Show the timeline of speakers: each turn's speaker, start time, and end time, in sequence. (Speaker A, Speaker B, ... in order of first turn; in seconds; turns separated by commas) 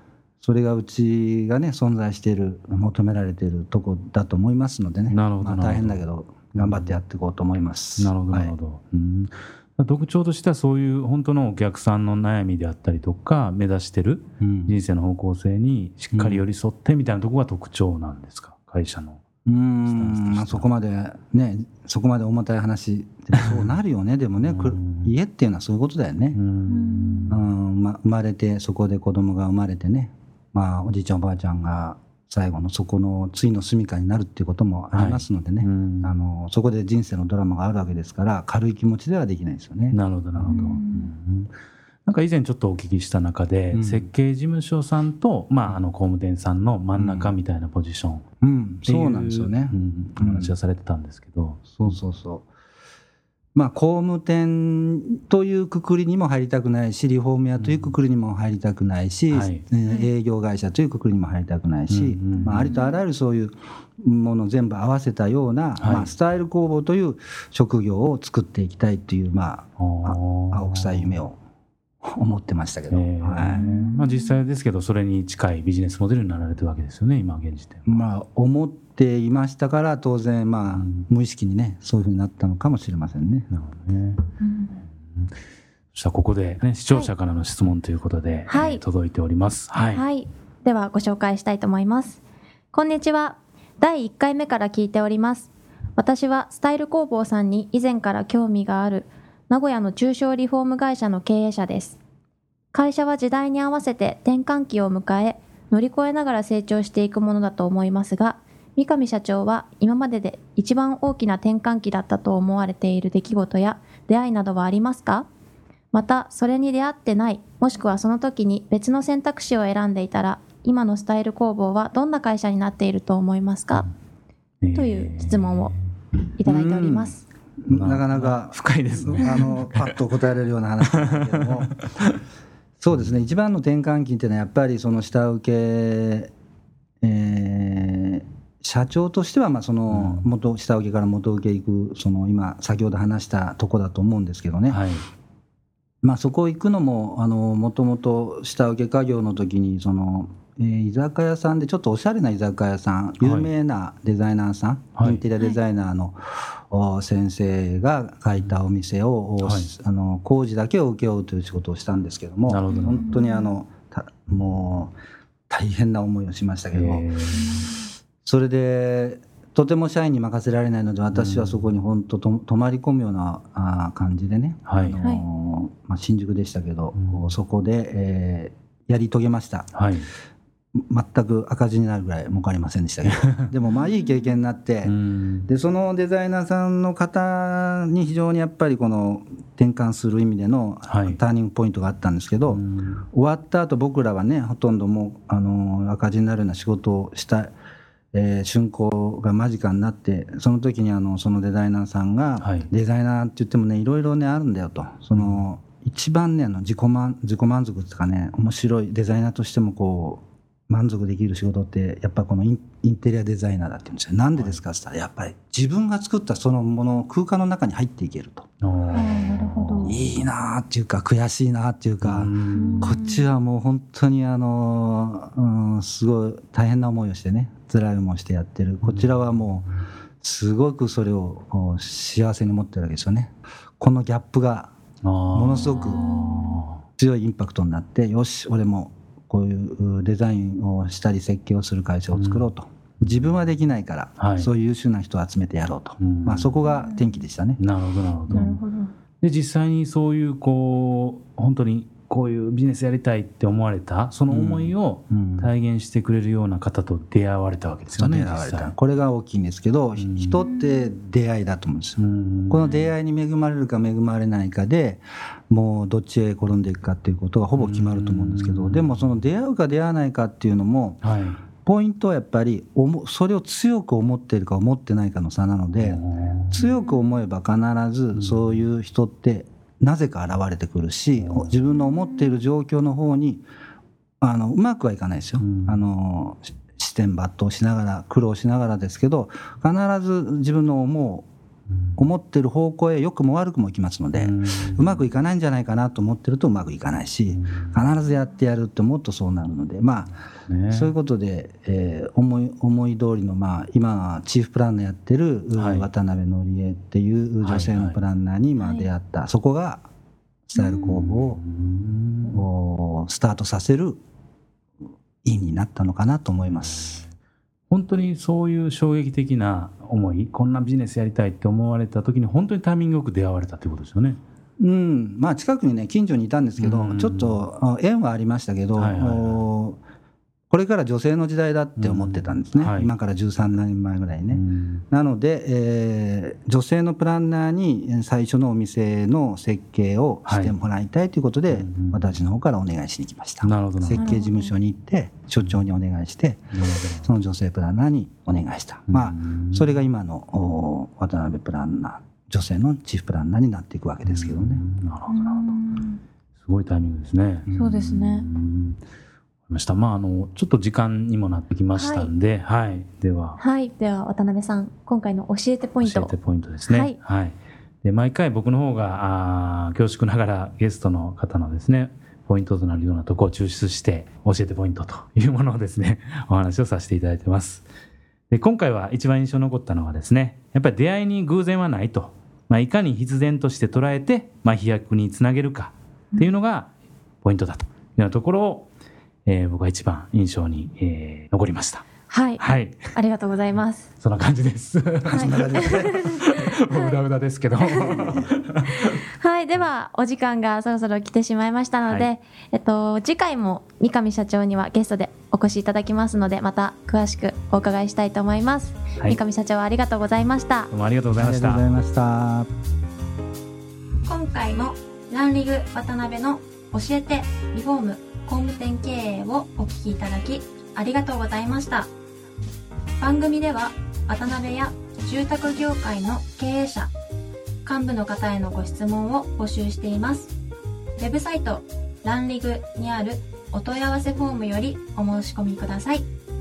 Speaker A: 0.4-8.5, Speaker B: 5.1-6.0, Speaker B: 6.6-7.0, Speaker B: 8.0-19.2, Speaker A: 14.4-14.8, Speaker A: 16.1-16.4, Speaker A: 19.5-26.4, Speaker B: 19.9-20.7, Speaker B: 24.4-25.1, Speaker B: 26.3-27.4, Speaker C: 26.7-27.3, Speaker A: 27.3-40.8, Speaker B: 34.9-36.2, Speaker B: 39.9-41.5, Speaker C: 40.5-41.1, Speaker B: 42.1-48.2, Speaker A: 43.7-44.1, Speaker A: 47.0-47.4, Speaker A: 48.4-50.5, Speaker B: 48.9-52.0, Speaker A: 51.7-52.5, Speaker A: 53.5-71.4, Speaker B: 57.6-58.0, Speaker B: 59.3-59.6, Speaker B: 61.9-62.7, Speaker C: 62.4-63.0, Speaker B: 65.8-66.1, Speaker B: 69.8-71.2, Speaker A: 72.0-73.6, Speaker B: 72.9-78.1, Speaker C: 73.5-74.4, Speaker A: 77.9-83.5, Speaker B: 80.7-81.1, Speaker B: 83.5-84.2, Speaker C: 84.4-84.8, Speaker B: 85.9-90.0, Speaker C: 88.5-88.8, Speaker C: 89.9-92.2, Speaker C: 92.7-102.0, Speaker C: 102.7-115.3, Speaker C: 115.9-123.9, Speaker B: 124.6-125.8, Speaker C: 124.7-125.7, Speaker C: 126.4-127.2, Speaker A: 126.5-131.7, Speaker B: 127.7-130.0, Speaker B: 130.9-132.1, Speaker A: 132.8-136.3, Speaker A: 137.0-144.8, Speaker B: 139.9-140.3, Speaker B: 144.7-145.1, Speaker A: 146.0-164.9, Speaker B: 153.2-153.5, Speaker B: 155.0-155.2, Speaker B: 159.4-159.7, Speaker B: 162.5-163.2, Speaker C: 162.7-163.5, Speaker A: 165.5-167.1, Speaker B: 166.7-167.7, Speaker C: 167.3-167.8, Speaker A: 168.2-179.7, Speaker B: 171.1-171.7, Speaker B: 174.7-175.0, Speaker B: 177.0-177.4, Speaker B: 179.7-180.1, Speaker A: 180.8-184.9, Speaker C: 183.8-184.3, Speaker B: 184.8-185.5, Speaker A: 185.5-192.6, Speaker B: 190.9-191.2, Speaker B: 192.5-193.0, Speaker A: 193.1-197.5, Speaker A: 198.1-218.5, Speaker B: 202.4-202.7, Speaker B: 205.2-205.4, Speaker B: 218.6-220.1, Speaker C: 218.9-220.0, Speaker A: 219.8-229.7, Speaker B: 222.0-223.0, Speaker C: 222.5-223.3, Speaker B: 228.8-229.2, Speaker A: 230.2-234.7, Speaker B: 235.0-236.8, Speaker A: 235.3-236.3, Speaker C: 236.0-236.5, Speaker A: 237.0-247.6, Speaker B: 242.1-242.5, Speaker B: 243.0-243.3, Speaker B: 244.2-244.5, Speaker B: 246.0-246.6, Speaker C: 246.7-247.0, Speaker B: 247.6-248.6, Speaker C: 248.3-248.9, Speaker B: 249.2-258.8, Speaker A: 254.3-255.5, Speaker A: 257.9-271.0, Speaker B: 260.0-260.5, Speaker C: 260.5-260.9, Speaker B: 262.0-262.9, Speaker B: 267.6-269.2, Speaker B: 271.0-271.4, Speaker A: 271.6-283.4, Speaker B: 275.8-276.7, Speaker C: 276.7-277.0, Speaker B: 278.1-278.6, Speaker B: 281.1-281.6, Speaker A: 284.2-291.3, Speaker B: 285.4-285.8, Speaker B: 291.7-292.0, Speaker A: 292.0-300.1, Speaker B: 294.1-295.1, Speaker B: 297.3-297.8, Speaker B: 300.5-300.9, Speaker A: 300.7-309.9, Speaker B: 305.6-305.9, Speaker B: 307.4-308.0, Speaker C: 308.6-308.9, Speaker A: 310.5-311.4, Speaker C: 310.6-310.9, Speaker B: 310.8-312.4, Speaker A: 312.2-314.0, Speaker A: 315.2-317.0, Speaker B: 316.5-317.1, Speaker B: 317.7-324.2, Speaker A: 324.6-329.8, Speaker B: 326.6-327.4, Speaker B: 328.8-329.4, Speaker A: 330.5-346.4, Speaker B: 331.8-332.9, Speaker B: 334.3-334.8, Speaker B: 340.3-340.6, Speaker B: 341.5-342.2, Speaker B: 343.4-344.2, Speaker C: 343.9-344.5, Speaker B: 346.5-347.1, Speaker A: 347.0-354.6, Speaker B: 348.9-349.8, Speaker B: 354.0-355.5, Speaker C: 355.1-356.0, Speaker B: 356.4-358.8, Speaker A: 357.5-357.8, Speaker C: 357.6-358.3, Speaker B: 359.5-363.4, Speaker C: 361.7-362.1, Speaker C: 363.4-366.1, Speaker B: 365.8-377.7, Speaker C: 366.7-367.0, Speaker B: 378.3-386.7, Speaker B: 387.2-388.7, Speaker B: 389.3-391.9, Speaker C: 392.1-393.9, Speaker B: 392.4-392.9, Speaker B: 394.0-398.9, Speaker A: 395.1-395.9, Speaker C: 395.2-397.0, Speaker C: 397.6-398.2, Speaker C: 398.8-410.7, Speaker B: 410.7-411.7, Speaker A: 411.1-412.5, Speaker C: 414.1-421.9, Speaker C: 423.0-426.9, Speaker C: 427.6-430.3, Speaker C: 431.0-436.1